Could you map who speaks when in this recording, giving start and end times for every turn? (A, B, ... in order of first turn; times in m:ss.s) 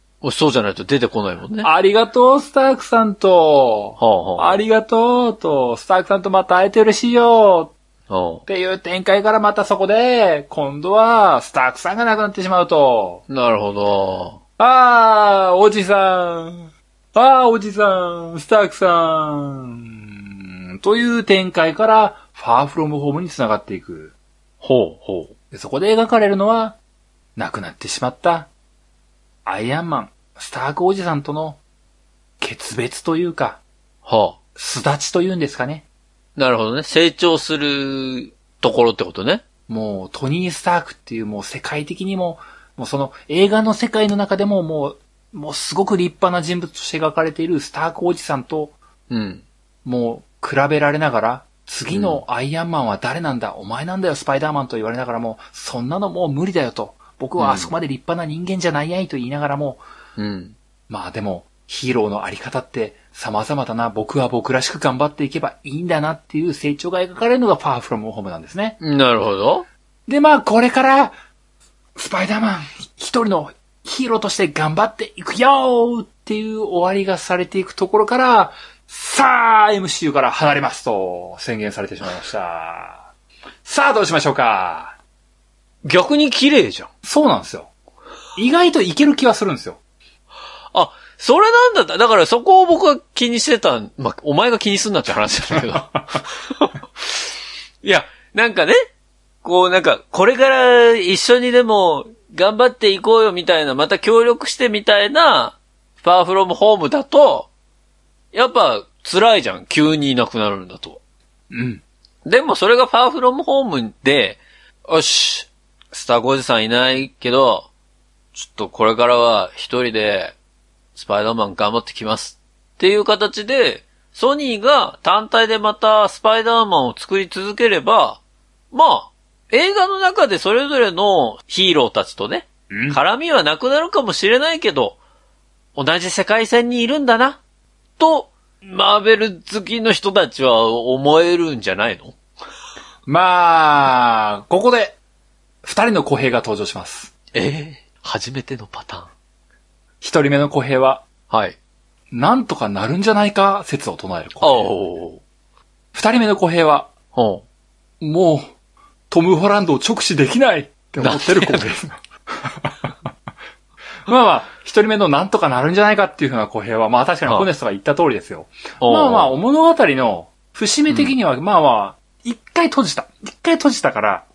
0:00.2-0:01.7 A
0:01.6-0:07.7 B
0:04.0-0:04.6 A
0:08.1-0:08.4 A
0:08.5-0:13.2 B
0:13.3-0:14.4 A
0:14.6-0:24.1 B
0:24.6-0:25.3 A
0:25.5-0:26.8 B
0:27.4-0:28.5 B
0:29.4-0:31.6 B
0:32.4-0:33.6 B
0:34.0-0:34.4 A
0:34.5-0:35.8 B
0:36.4-0:39.4 A
0:39.7-0:48.8 B
0:49.1-0:49.4 A
0:49.8-0:59.8 B
0:51.9-0:52.2 A
0:57.4-0:57.7 A
1:00.2-1:00.6 A
1:00.9-1:08.8 B
1:08.8-1:09.6 A
1:10.1-1:11.1 B
1:12.0-1:23.1 B
1:23.6-1:25.0 B
1:25.8-1:26.9 A
1:27.0-1:27.7 B
1:28.4-1:29.8 B
1:30.7-1:36.8 A
1:35.5-1:35.8 B
1:37.8-1:38.7 A
1:39.4-1:47.5 A
1:48.3-1:51.0 A
1:51.5-1:51.8 B
1:52.2-1:57.7 A
1:58.3-2:00.4 A
2:00.9-2:08.2 A
2:08.7-2:15.0 A
2:12.7-2:13.0 B
2:15.8-2:17.4 A
2:18.0-2:22.2 A
2:23.0-2:25.0 B
2:25.6-2:27.1 B
2:27.3-2:29.1 A
2:30.0-2:31.0 B
2:31.3-2:31.6 A
2:32.1-2:34.7 B
2:34.4-2:35.2 A
2:35.9-2:36.9 B
2:37.1-2:37.4 A
2:38.0-2:38.5 B
2:39.1-2:42.8 B
2:41.0-2:41.7 A
2:44.0-2:54.2 B
2:48.8-2:49.3 A